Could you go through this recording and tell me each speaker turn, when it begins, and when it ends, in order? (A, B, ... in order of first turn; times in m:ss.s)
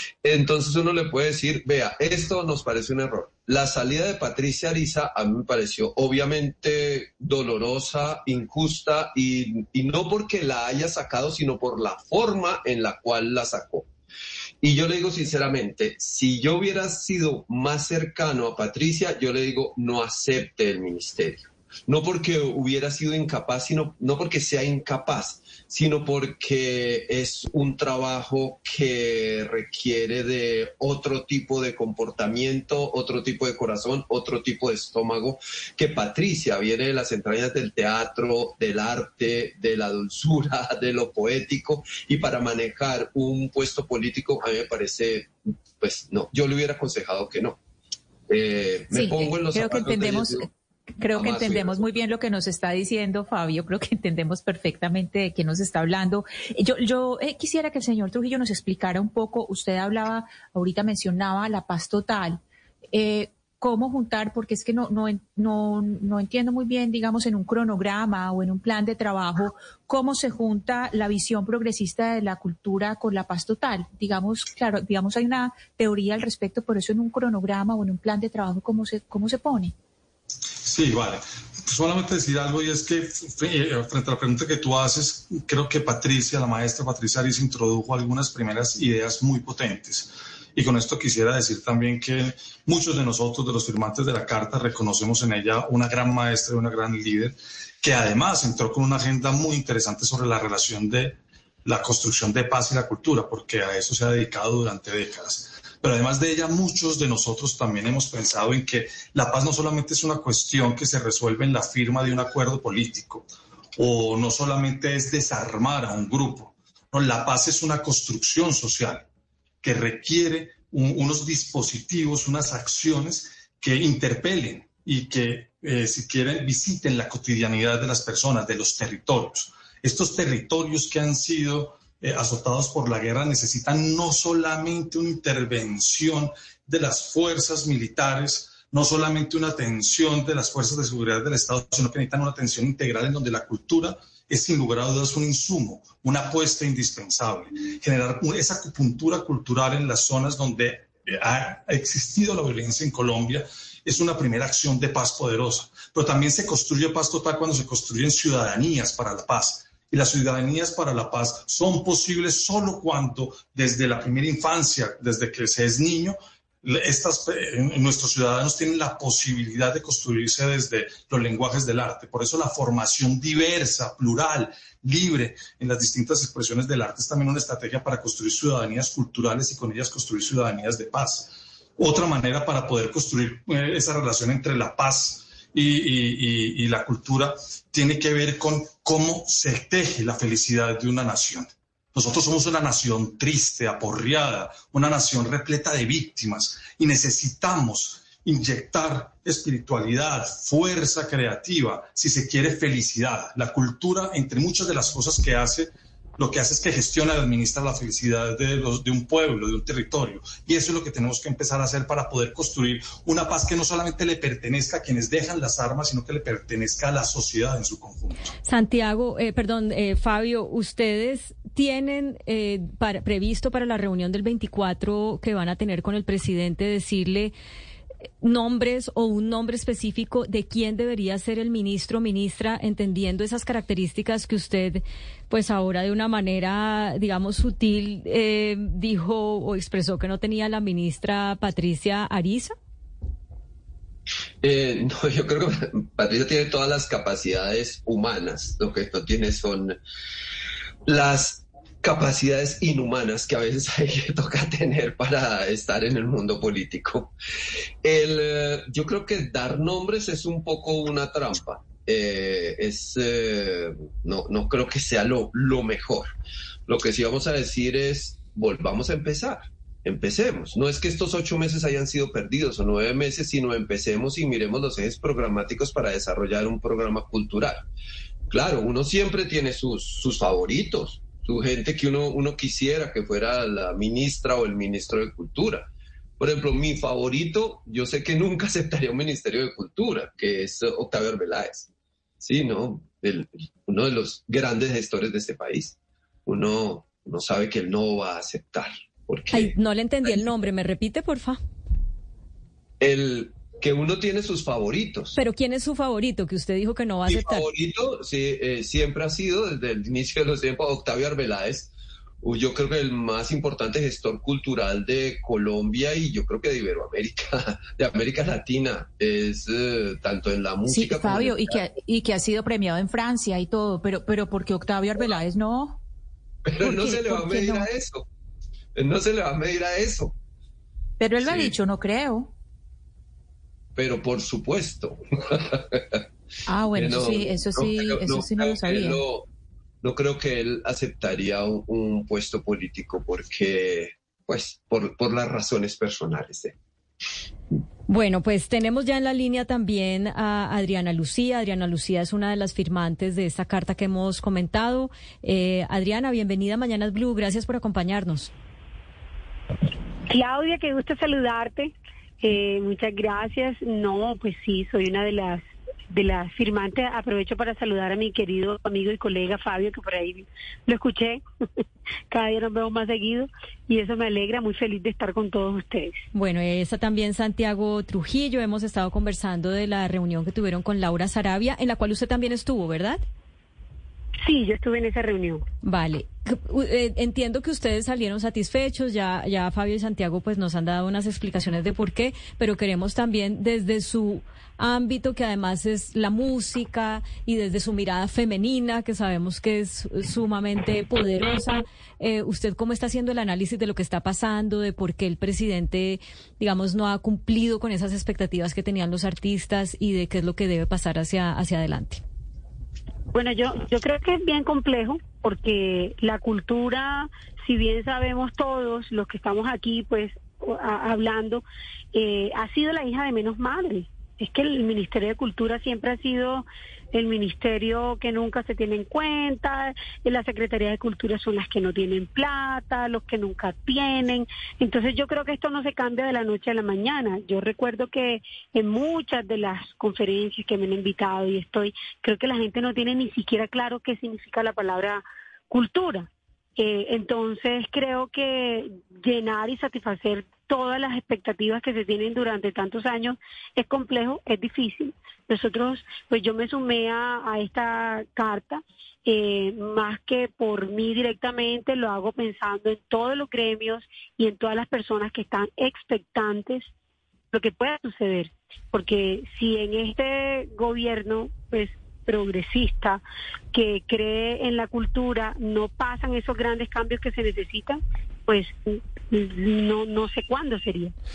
0:00.2-0:13.9 A
0:14.6-0:47.6 A
0:48.3-0:50.5 A
0:48.9-0:50.5 B
0:51.0-1:02.4 B
0:51.1-0:51.8 A
1:02.9-1:19.7 B
1:20.6-1:59.1 C
1:59.6-3:38.3 C
3:38.4-3:47.3 D
3:48.2-4:02.5 D
4:04.4-4:09.8 A
4:10.9-4:17.1 A
4:17.8-4:26.1 A
4:26.7-4:37.6 A
4:38.3-4:45.7 A
4:46.2-4:51.7 A
4:52.2-4:55.7 A
4:56.3-4:59.5 A
4:59.3-5:01.4 D
5:02.8-5:05.2 A
5:05.1-5:07.5 D
5:07.1-5:11.7 A
5:12.2-5:21.5 A
5:20.7-5:25.8 B
5:26.5-5:28.0 A
5:26.6-5:27.7 B
5:28.8-5:30.1 A
5:31.0-5:32.3 B
5:31.2-5:31.5 A
5:33.8-5:35.8 A
5:36.5-5:39.0 B
5:36.7-5:39.2 A
5:39.8-5:46.5 A
5:47.9-5:58.3 D
6:00.1-6:11.2 E
6:12.1-6:16.0 E
6:16.1-6:23.0 D
6:24.2-6:25.4 E
6:25.6-6:52.0 D
6:53.1-7:46.7 E
7:47.3-7:53.0 E
7:53.5-8:00.9 E